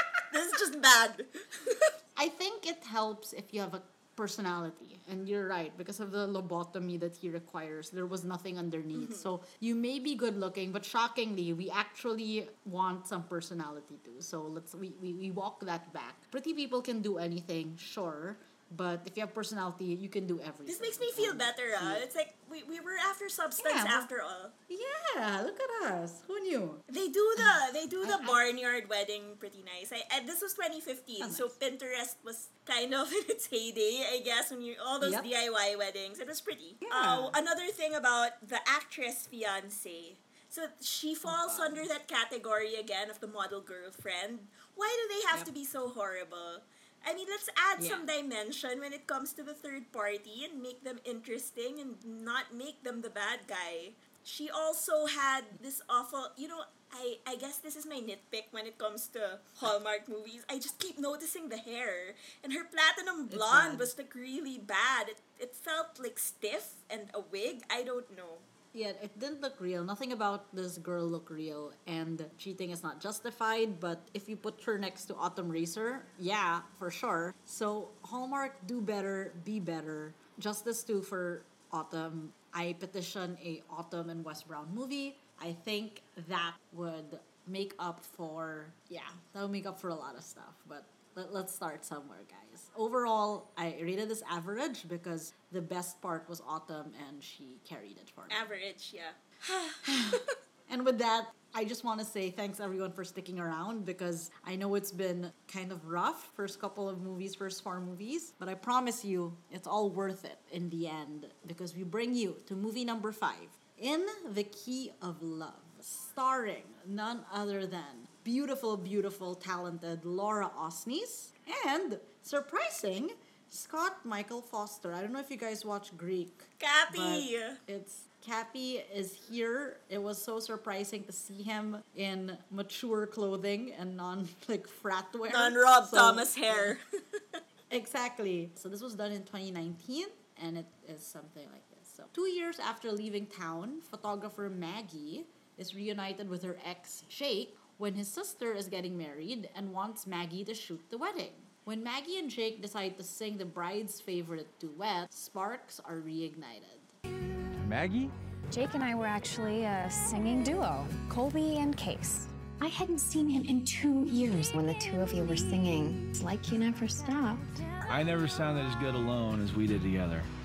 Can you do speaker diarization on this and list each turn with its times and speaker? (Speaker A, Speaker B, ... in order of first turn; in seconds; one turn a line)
Speaker A: 0.3-1.9
Speaker B: 2.1-22.0
Speaker A: 8.9-9.3
Speaker A: 20.6-24.5
Speaker B: 23.6-24.1
Speaker B: 24.7-26.8
Speaker A: 26.9-68.5
Speaker B: 27.4-28.4
Speaker B: 31.2-31.5
Speaker B: 35.0-35.3
Speaker B: 36.8-37.4
Speaker B: 41.2-41.9
Speaker B: 47.8-48.1
Speaker B: 63.3-63.9
Speaker B: 68.7-98.5
Speaker A: 98.3-100.3
Speaker B: 99.8-136.8
Speaker A: 126.6-127.6
Speaker A: 135.3-136.8
Speaker B: 137.7-156.9
Speaker C: 157.6-158.1
Speaker D: 158.5-167.7
Speaker C: 167.8-170.3